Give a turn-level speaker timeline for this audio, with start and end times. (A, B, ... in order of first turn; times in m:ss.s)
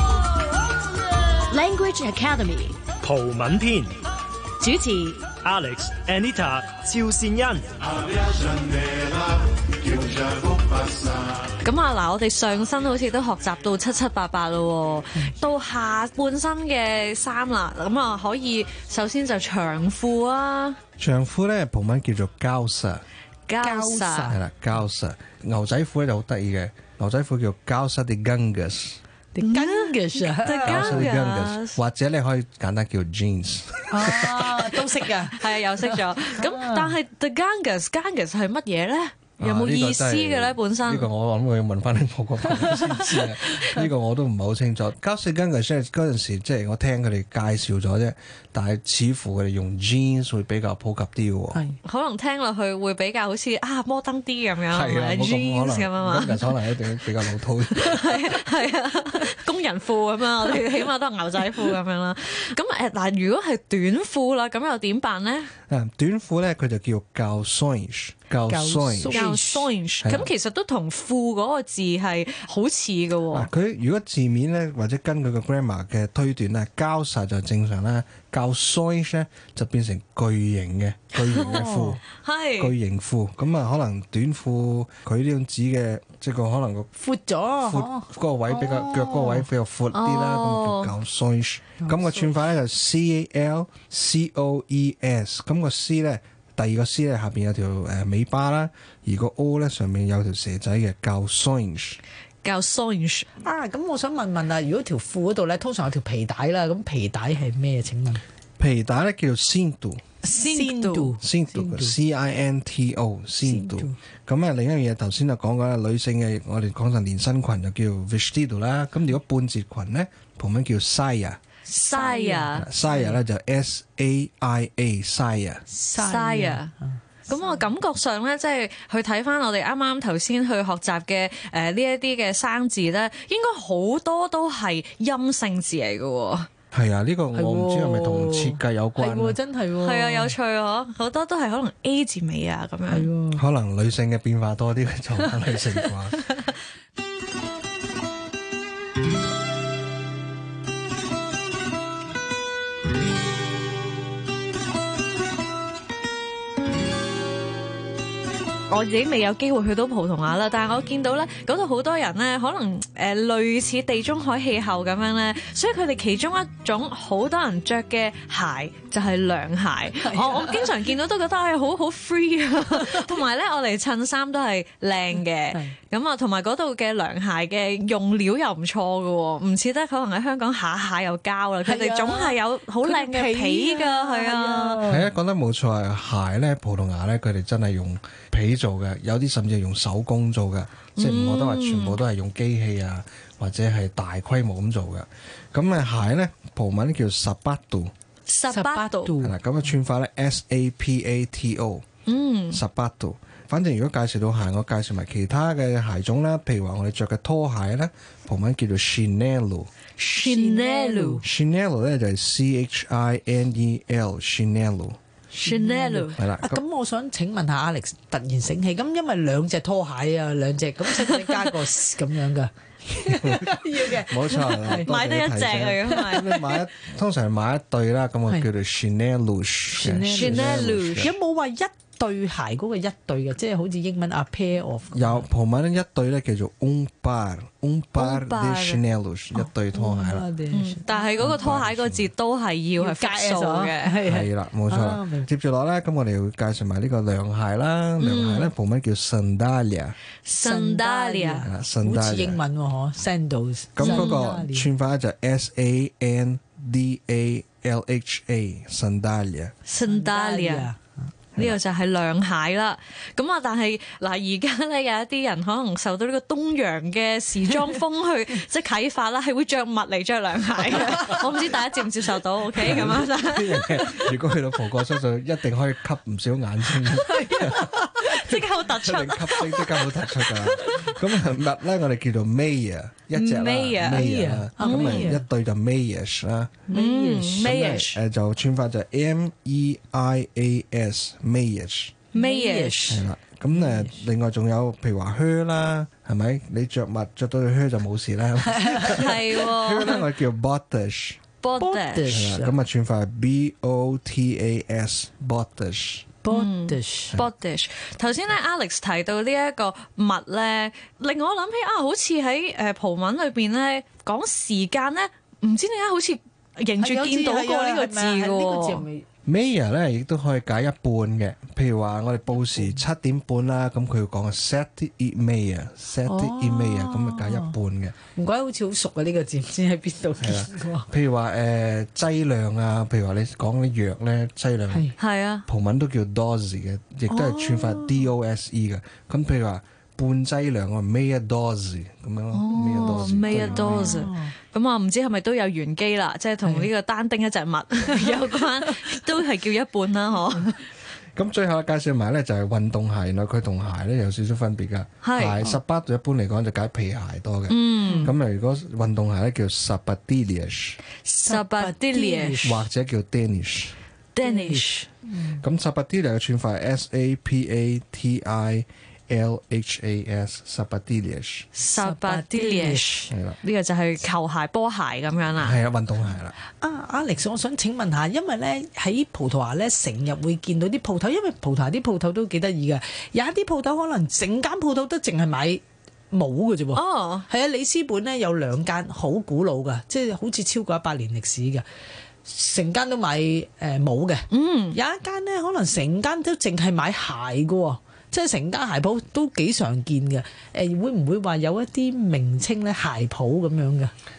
0:01.5-0:02.8 A
0:03.0-0:04.0 B
0:04.6-0:05.3 A
0:05.4-0:08.3 B
0:11.6-0:20.8 C
0:21.0-0:23.0 D
0:23.5-0:24.3 C
0:23.6-0:24.4 E
0:24.3-0:29.0 D
0:29.3-0:31.1 E
0:29.4-0:31.8 C
0:30.6-0:34.6 D
0:33.9-0:36.9 E
0:35.3-0:41.1 C
0:39.4-0:51.6 D
0:42.5-0:43.8 E
0:51.8-0:56.6 C
0:54.7-0:58.3 D
0:57.7-1:05.5 C
1:05.7-1:09.3 D
1:08.5-1:09.7 E
1:09.1-1:13.5 C
1:10.0-1:10.3 D
1:13.3-1:22.0 D
1:21.5-1:22.0 E
1:22.2-1:22.7 C
1:22.6-1:26.9 D
1:27.0-1:29.4 E
1:27.6-1:42.0 D
1:29.9-1:30.9 C
1:31.8-1:32.3 E
1:42.4-1:43.3 C
1:43.4-1:48.2 E
1:48.6-1:50.0 D
1:50.2-1:51.9 E
1:50.3-1:51.1 C
1:51.2-2:01.4 D
1:53.4-1:54.0 E
2:01.7-2:02.6 C
2:01.9-2:03.2 E
2:02.6-2:05.6 D
2:05.7-2:07.6 E
2:06.0-2:06.7 C
2:07.3-2:16.5 C
2:16.7-2:19.4 D
2:17.3-2:20.3 E
2:19.8-2:23.1 C
2:22.9-2:23.4 E
2:23.3-2:26.2 D
2:38.7-3:04.8 C
2:50.0-2:50.8 E
2:52.7-2:53.0 E
3:01.6-3:05.1 E
3:04.9-3:17.9 D
3:11.0-3:12.0 C
3:18.3-3:19.1 C
3:18.5-3:19.4 E
3:19.2-3:21.8 D
3:22.0-3:22.6 C
3:22.5-3:29.7 D
3:30.0-3:31.2 E
3:30.0-3:31.2 C
3:31.2-3:35.0 D
3:35.3-3:44.9 E
3:35.4-3:36.2 C
3:36.2-3:36.6 D
3:43.0-3:51.1 D
3:44.8-3:46.5 C
3:45.9-3:46.2 E
3:49.7-3:55.2 E
3:50.1-3:51.1 C
3:54.9-4:00.3 D
3:58.0-3:58.8 C
3:59.7-4:01.4 E
4:00.5-4:04.0 C
4:01.2-4:02.1 D
4:02.8-4:05.3 E
4:04.0-4:10.0 D
4:08.0-4:08.5 C
4:10.2-4:11.5 C
4:10.4-4:14.7 E
4:11.4-4:12.4 D
4:13.7-4:19.5 D
4:13.8-4:14.2 C
4:19.7-4:20.7 C
4:19.8-4:20.9 E
4:21.4-4:34.0 C
4:32.6-4:37.8 D
4:37.0-4:38.2 E
4:38.0-4:39.7 C
4:38.3-4:46.6 D
4:43.1-4:44.1 C
4:44.0-4:45.2 E
4:44.6-4:45.1 C
4:46.7-4:47.5 E
4:46.7-4:48.0 C
4:47.4-4:52.0 D
4:52.1-4:53.0 C
4:52.1-4:53.0 E
4:52.9-5:01.2 D
4:53.5-4:54.0 E
4:58.5-4:59.0 E
4:58.9-5:00.0 C
5:01.4-5:02.2 C
5:01.6-5:02.5 E
5:02.1-5:06.1 D
5:06.2-5:07.1 E
5:06.3-5:18.8 C
5:16.8-5:19.0 E
5:19.2-5:28.0 D
5:26.0-5:27.5 E
5:28.1-5:30.9 E
5:30.2-5:34.9 D
5:34.7-5:35.0 E
5:35.0-5:35.4 C
5:35.5-5:44.1 D
5:37.1-5:38.1 E
5:42.3-5:50.6 C
5:43.2-5:44.3 E
5:46.4-5:46.7 E
5:47.9-5:48.7 E
5:51.1-6:00.8 D
5:55.0-5:55.5 C
5:57.5-5:58.1 C
5:57.8-5:58.1 E
6:01.0-6:02.5 C
6:01.2-6:02.5 E
6:02.4-6:03.8 D
6:04.1-6:04.9 C
6:04.2-6:05.4 E
6:05.4-6:11.5 D
6:11.5-6:15.6 C
6:11.8-6:13.0 E
6:13.1-6:13.4 D
6:15.4-6:16.3 D
6:16.6-6:31.6 E
6:26.7-6:27.2 C
6:32.2-6:43.9 E
6:34.3-6:34.8 C